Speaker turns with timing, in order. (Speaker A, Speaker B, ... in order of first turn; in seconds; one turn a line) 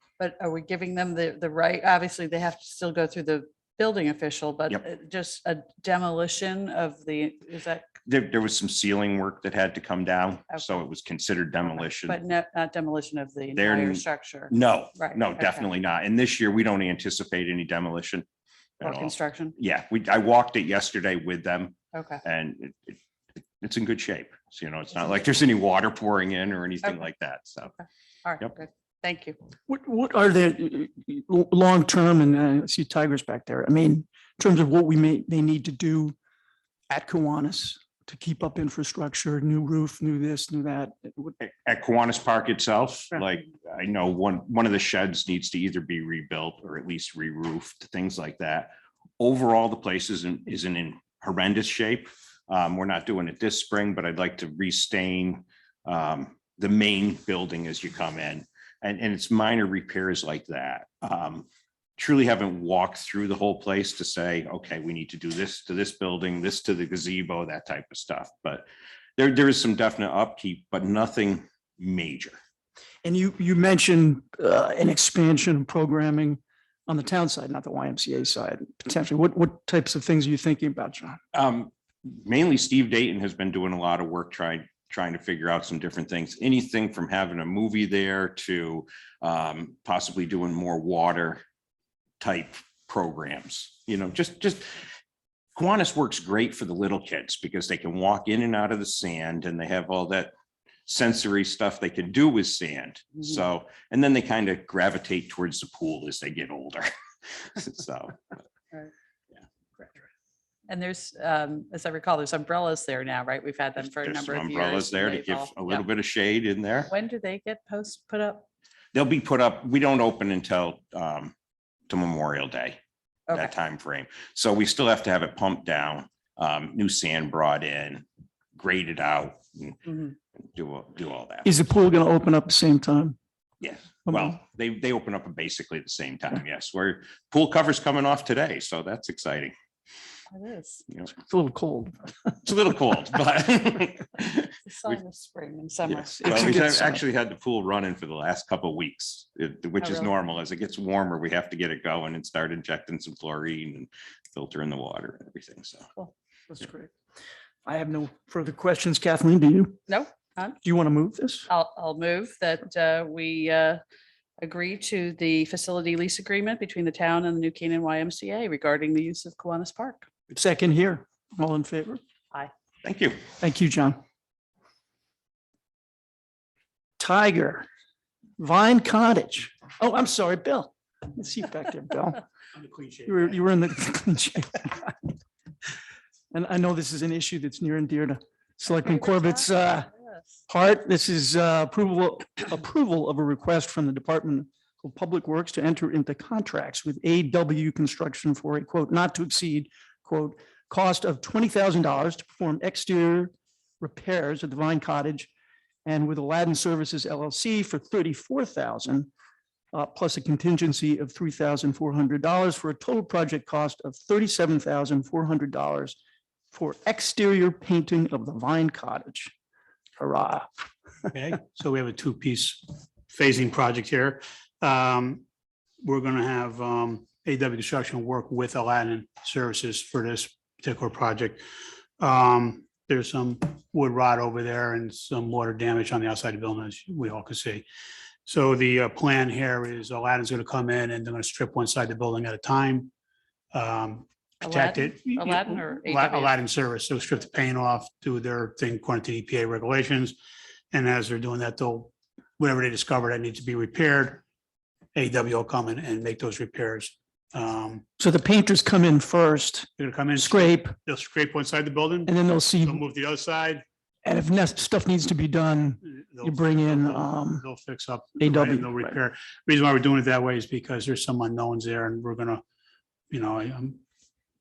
Speaker A: 0.2-7.9
Speaker B: 8.0-12.2
Speaker A: 10.5-10.8
Speaker A: 12.0-15.7
Speaker B: 13.5-18.3
Speaker B: 18.8-23.0
Speaker A: 18.8-19.6
Speaker A: 21.9-22.2
Speaker B: 23.6-27.7
Speaker A: 27.6-29.4
Speaker C: 29.7-36.1
Speaker C: 36.9-41.4
Speaker B: 41.4-72.4
Speaker C: 73.0-81.2
Speaker B: 81.3-91.4
Speaker B: 92.2-94.7
Speaker B: 95.5-100.3
Speaker B: 100.9-106.9
Speaker B: 107.5-108.2
Speaker A: 110.7-115.8
Speaker B: 113.8-116.9
Speaker A: 116.9-118.5
Speaker B: 118.9-121.3
Speaker B: 121.9-122.8
Speaker B: 123.3-128.1
Speaker B: 128.6-131.5
Speaker C: 131.4-133.2
Speaker B: 133.6-139.5
Speaker A: 140.3-140.8
Speaker C: 141.2-142.0
Speaker B: 142.4-145.0
Speaker A: 144.7-146.6
Speaker C: 146.1-147.0
Speaker B: 146.2-155.9
Speaker A: 149.8-150.1
Speaker C: 156.5-156.9
Speaker C: 157.7-159.8
Speaker A: 159.9-160.6
Speaker C: 160.6-161.5
Speaker A: 161.5-163.8
Speaker A: 164.4-170.1
Speaker C: 170.3-172.0
Speaker B: 172.8-173.2
Speaker C: 173.4-174.0
Speaker C: 177.0-177.7
Speaker C: 178.4-182.2
Speaker D: 182.6-183.4
Speaker C: 183.1-185.1
Speaker C: 186.3-189.9
Speaker A: 188.7-190.4
Speaker C: 190.5-205.3
Speaker C: 205.8-209.1
Speaker C: 209.7-216.0
Speaker C: 216.5-219.3
Speaker C: 220.0-220.5
Speaker D: 221.1-225.2
Speaker D: 225.8-231.4
Speaker D: 232.0-237.7
Speaker D: 238.3-242.9
Speaker D: 243.5-250.2
Speaker A: 244.4-246.3
Speaker D: 250.7-254.2
Speaker D: 254.9-257.8
Speaker C: 258.0-260.8
Speaker D: 259.8-262.1
Speaker C: 262.1-262.8
Speaker D: 262.6-263.6
Speaker C: 264.0-267.4
Speaker D: 265.8-272.4
Speaker C: 268.2-269.0
Speaker D: 273.1-273.8